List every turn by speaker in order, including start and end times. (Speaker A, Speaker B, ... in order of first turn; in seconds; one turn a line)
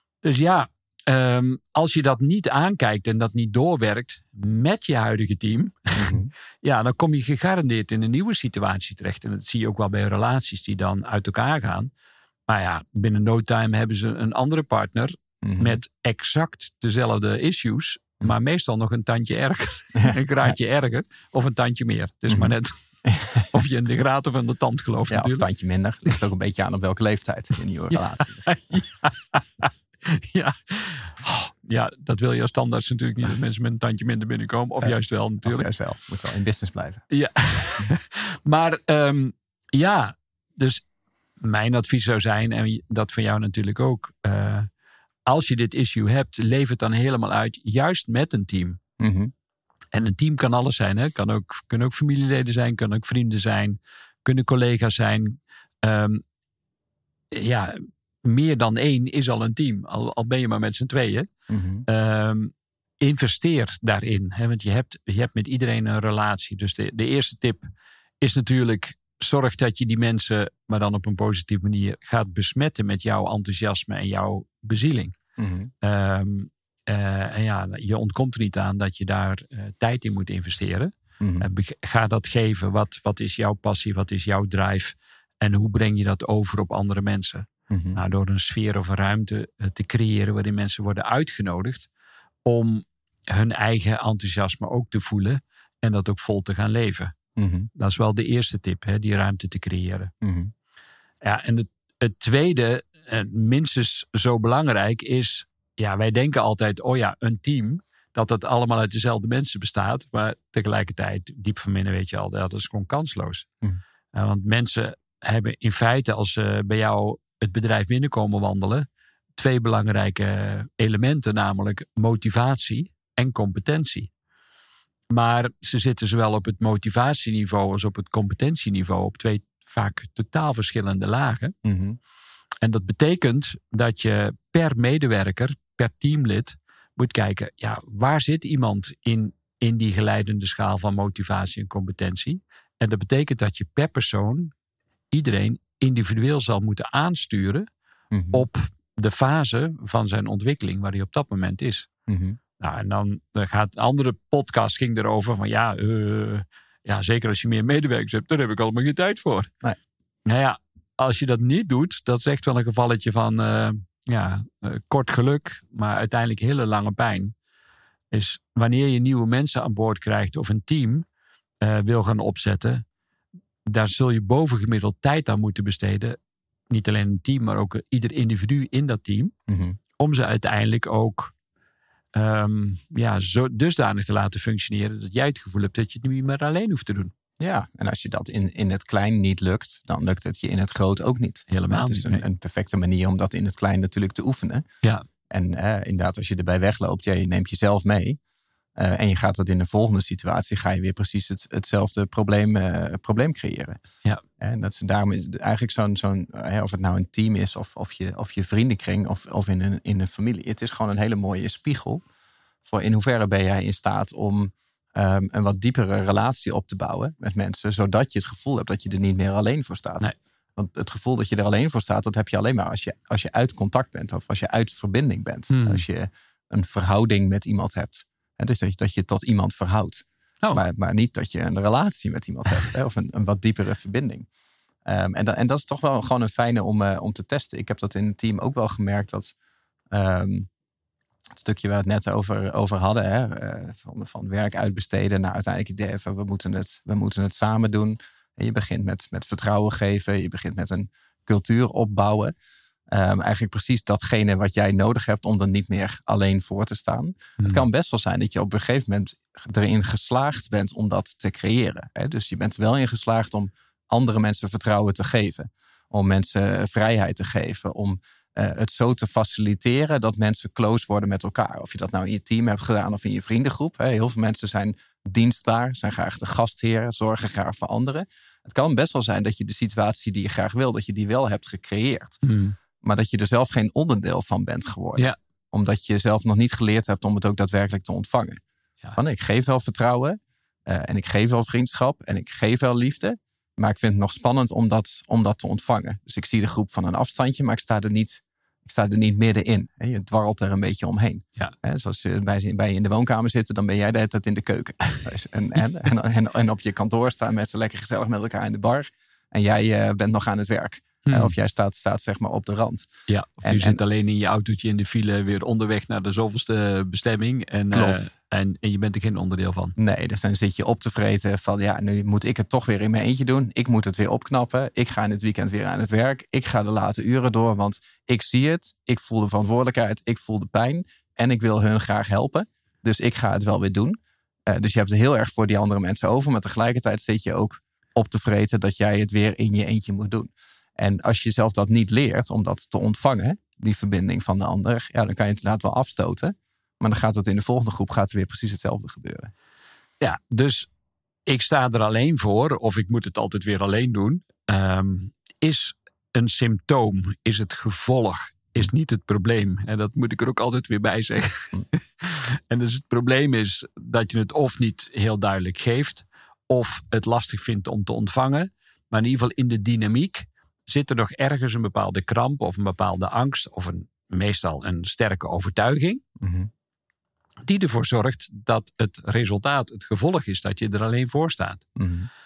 Speaker A: 0.2-11.9
Speaker B: 6.0-6.3
Speaker A: 12.5-22.7
Speaker B: 15.4-15.8
Speaker B: 20.0-20.5
Speaker B: 22.3-22.5
Speaker B: 23.0-23.6
Speaker A: 23.4-25.5
Speaker B: 25.1-28.5
Speaker A: 27.9-35.7
Speaker B: 34.8-37.0
Speaker A: 37.1-40.8
Speaker A: 41.4-44.7
Speaker A: 45.3-48.8
Speaker B: 49.0-49.3
Speaker A: 49.9-56.2
Speaker A: 57.3-61.3
Speaker B: 61.5-61.9
Speaker A: 61.9-67.7
Speaker A: 68.2-75.2
Speaker B: 75.4-75.7
Speaker A: 75.8-91.9
Speaker B: 81.2-81.5
Speaker B: 87.7-88.0
Speaker A: 92.4-97.2
Speaker B: 97.3-97.7
Speaker A: 97.8-100.1
Speaker B: 100.2-100.5
Speaker A: 101.2-113.5
Speaker A: 114.1-124.1
Speaker A: 125.1-131.6
Speaker B: 131.6-132.0
Speaker A: 132.6-144.5
Speaker A: 145.1-147.7
Speaker B: 148.1-148.4
Speaker A: 148.3-151.9
Speaker B: 152.1-152.4
Speaker A: 152.6-159.5
Speaker A: 160.2-167.3
Speaker A: 168.1-171.1
Speaker A: 171.6-172.8
Speaker A: 173.6-176.2
Speaker A: 176.7-179.3
Speaker B: 179.5-179.8
Speaker A: 180.0-181.3
Speaker A: 182.1-187.1
Speaker B: 187.4-194.6
Speaker A: 191.5-192.2
Speaker B: 195.3-198.2
Speaker B: 198.8-203.8
Speaker B: 204.4-212.0
Speaker B: 212.7-234.3
Speaker A: 225.5-225.8
Speaker B: 234.8-239.3
Speaker B: 239.9-240.5
Speaker B: 241.3-252.3
Speaker B: 252.9-282.2
Speaker A: 257.4-257.6
Speaker A: 282.2-282.6
Speaker B: 282.8-288.4
Speaker B: 288.9-312.9
Speaker A: 311.0-311.3
Speaker A: 313.1-319.7
Speaker B: 313.4-313.8
Speaker B: 317.7-318.0
Speaker B: 319.8-334.0
Speaker B: 334.5-349.3
Speaker A: 350.0-350.7
Speaker A: 351.3-376.0
Speaker B: 376.2-376.5
Speaker A: 377.4-381.7
Speaker B: 381.8-382.1